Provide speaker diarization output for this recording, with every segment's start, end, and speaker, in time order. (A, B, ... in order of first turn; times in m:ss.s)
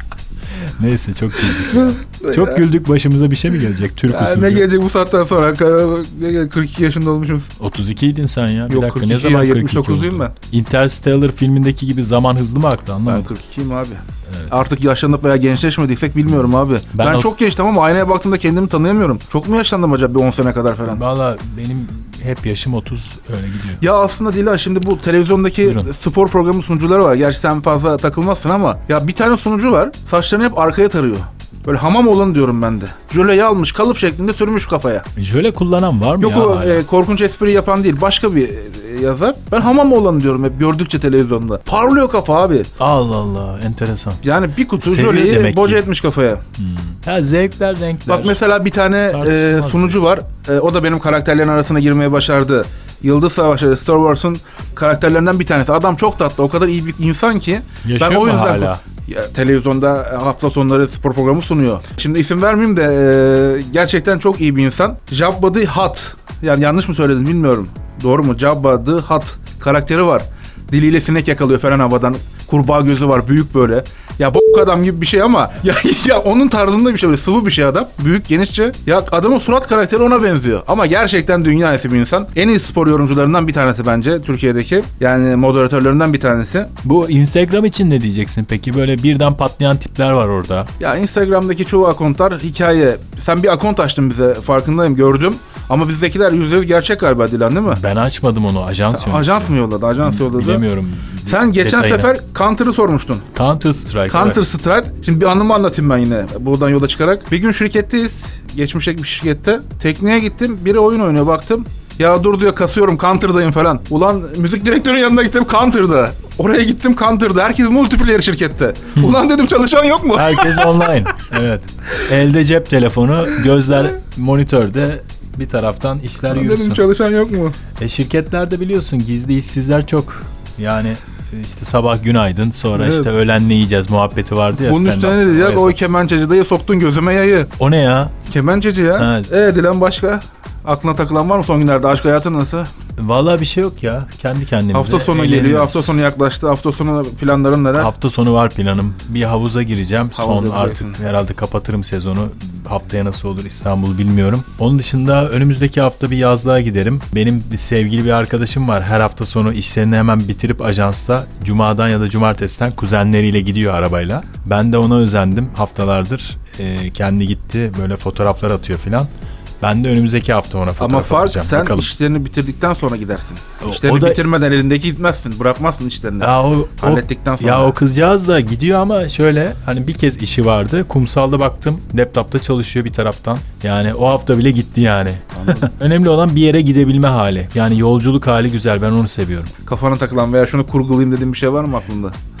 0:00.8-0:04.6 A
0:01.5-0:02.6 B
0:04.1-0:07.5 B
0:07.6-0:13.3 A
0:08.7-0:10.3 B
0:13.0-0:21.0 B
0:16.9-0:17.3 A
0:20.9-0:23.8 A
0:23.8-0:35.0 B
0:25.6-0:25.9 A
0:35.2-0:36.8 A
0:36.2-0:42.7 B
0:42.8-0:44.2 A
0:44.2-0:46.4 B
0:44.8-0:45.8 A
0:46.6-0:48.4 A
0:48.1-1:26.7 B
0:49.1-0:50.0 A
0:57.8-0:58.8 A
1:26.8-1:30.7 A
1:30.8-1:37.8 B
1:37.7-1:42.1 A
1:38.9-1:40.6 B
1:41.2-1:43.3 B
1:43.3-1:44.4 A
1:44.1-2:01.0 B
2:00.1-2:06.8 A
2:06.3-2:07.6 B
2:07.8-2:15.8 A
2:12.7-2:13.1 B
2:14.5-2:17.5 B
2:17.6-2:18.2 A
2:18.2-2:22.7 B
2:19.0-2:19.3 A
2:23.0-2:26.0 A
2:24.7-2:27.9 B
2:27.8-2:49.1 A
2:30.1-2:31.0 B
2:49.6-2:51.9 A
2:50.8-2:57.8 B
2:53.6-2:54.2 A
2:56.2-3:09.5 A
3:05.3-3:05.7 B
3:09.6-3:12.1 B